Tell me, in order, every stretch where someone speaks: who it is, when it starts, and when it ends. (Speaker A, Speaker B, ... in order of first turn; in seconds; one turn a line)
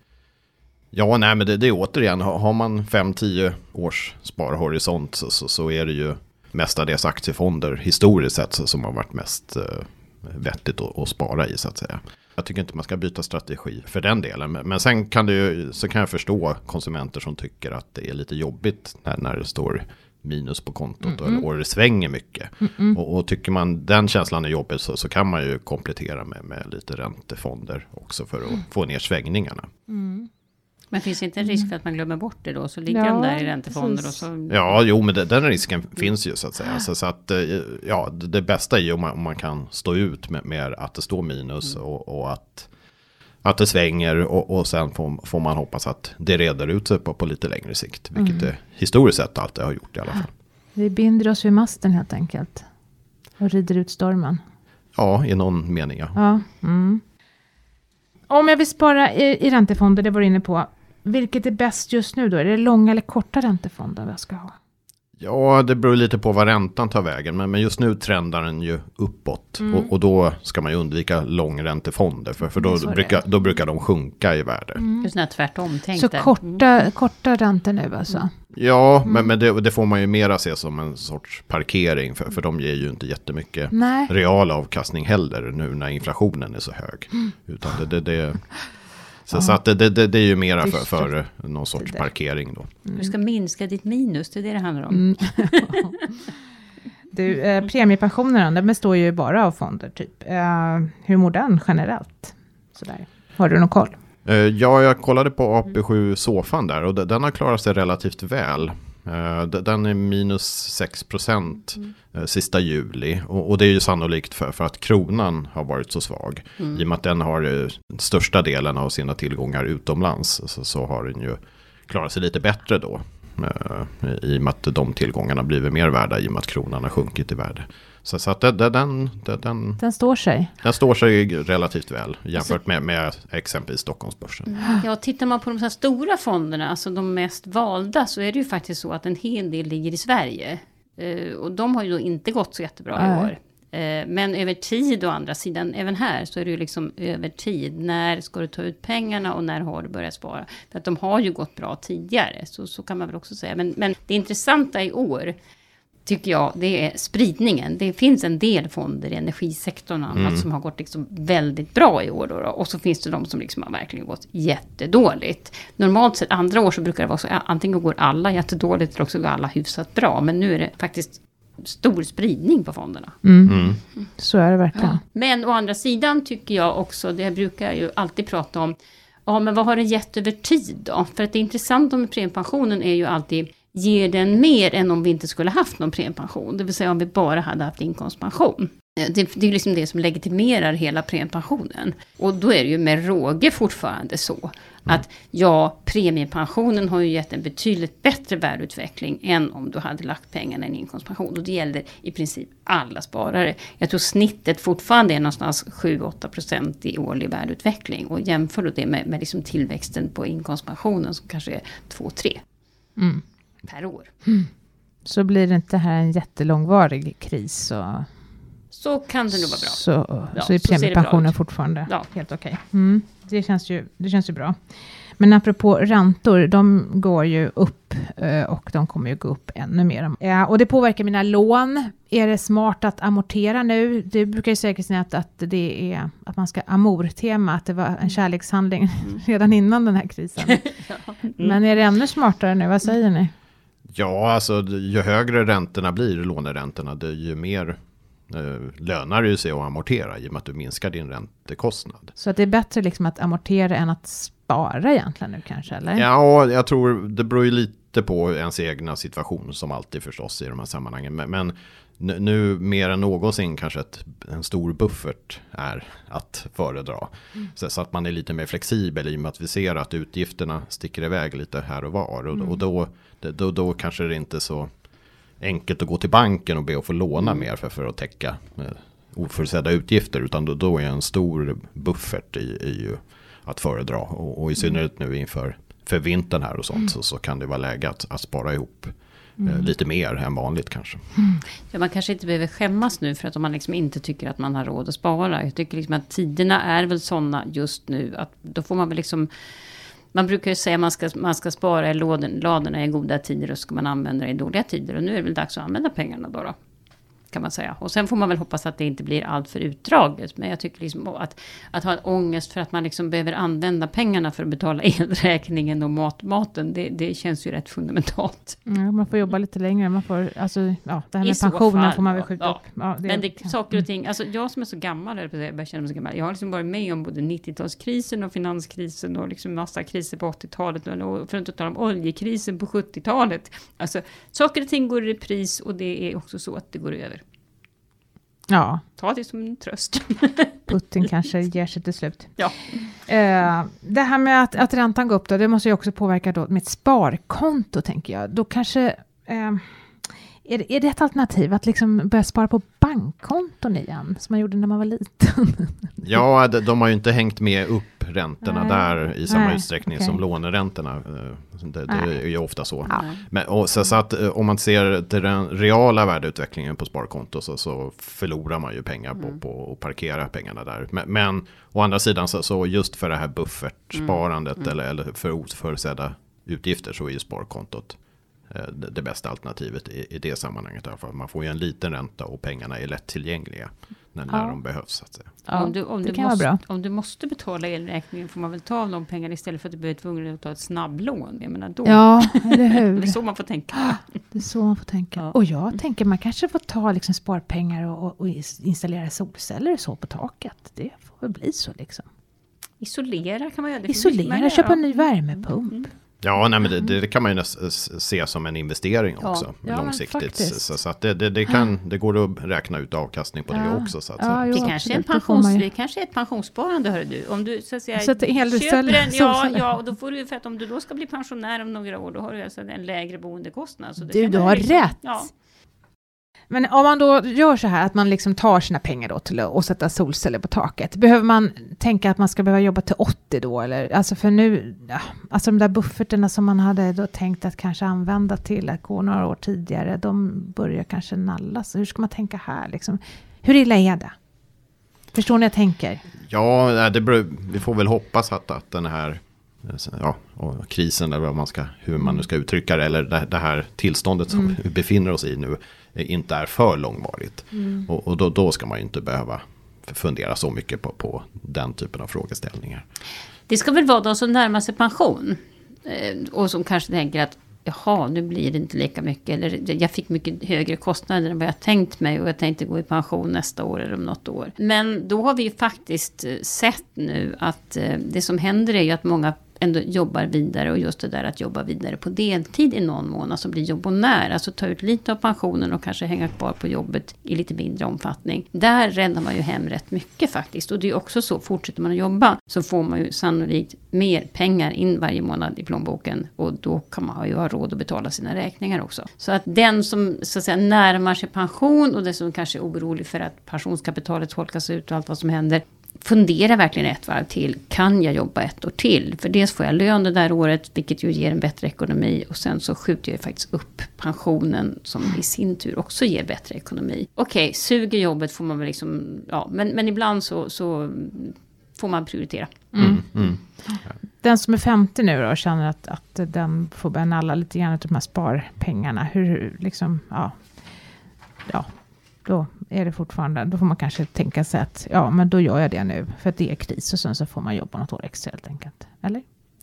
Speaker A: 0.9-29.7
Speaker B: 21.1-21.4
Speaker B: 22.7-23.0
Speaker B: 29.9-30.3
Speaker C: 30.9-34.8
Speaker B: 32.9-34.2
Speaker A: 34.5-42.7
Speaker A: 43.4-50.3
Speaker B: 48.2-48.5
Speaker B: 50.8-52.7
Speaker B: 53.4-54.4
Speaker A: 55.0-56.2
Speaker B: 56.2-57.0
Speaker B: 58.3-64.5
Speaker A: 65.2-74.8
Speaker B: 69.6-69.9
Speaker B: 72.6-73.2
Speaker B: 74.8-75.1
Speaker C: 75.0-76.6
Speaker B: 76.0-78.3
Speaker A: 78.5-88.6
Speaker B: 83.7-84.1
Speaker A: 89.3-92.7
Speaker B: 90.7-91.1
Speaker C: 93.0-96.0
Speaker B: 94.9-96.1
Speaker B: 97.1-104.0
Speaker A: 104.3-129.8
Speaker B: 129.8-130.5
Speaker A: 130.6-134.5
Speaker C: 134.5-155.4
Speaker B: 143.0-143.3
Speaker C: 156.1-173.2
Speaker A: 160.1-160.5
Speaker B: 173.2-175.0
Speaker A: 173.5-173.8
Speaker C: 174.8-212.4
Speaker B: 213.0-213.2
Speaker C: 213.7-214.1
Speaker B: 215.1-218.1
Speaker C: 218.7-219.8
Speaker B: 219.3-224.6
Speaker C: 220.3-222.1
Speaker B: 225.2-240.7
Speaker C: 240.4-241.6
Speaker B: 241.4-243.3
Speaker A: 243.9-247.8
Speaker A: 248.3-252.1
Speaker B: 252.2-256.1
Speaker A: 256.0-274.7
Speaker A: 275.4-291.1
Speaker B: 289.4-289.7
Speaker C: 291.7-299.3
Speaker C: 300.1-306.6
Speaker C: 307.3-318.6
Speaker B: 318.7-323.5
Speaker C: 321.2-337.2
Speaker B: 338.5-338.8
Speaker C: 339.0-340.6
Speaker B: 340.7-356.0
Speaker C: 342.4-342.8
Speaker A: 356.0-385.4
Speaker B: 358.4-360.2
Speaker C: 362.9-363.2
Speaker B: 384.3-384.6
Speaker B: 385.4-386.6
Speaker C: 385.5-394.2
Speaker B: 391.9-393.2
Speaker B: 393.8-402.1
Speaker C: 402.8-405.1
Speaker B: 403.9-405.9
Speaker A: 406.2-414.5
Speaker B: 409.6-410.7
Speaker B: 413.5-415.6
Speaker C: 414.5-425.3
Speaker B: 418.0-419.7
Speaker B: 424.1-425.0
Speaker B: 426.5-444.1
Speaker B: 445.1-446.0
Speaker A: 446.2-462.9
Speaker B: 457.5-457.9
Speaker C: 463.5-522.8
Speaker B: 522.8-523.1
Speaker A: 522.8-523.9
Speaker B: 523.6-530.6
Speaker B: 532.2-539.2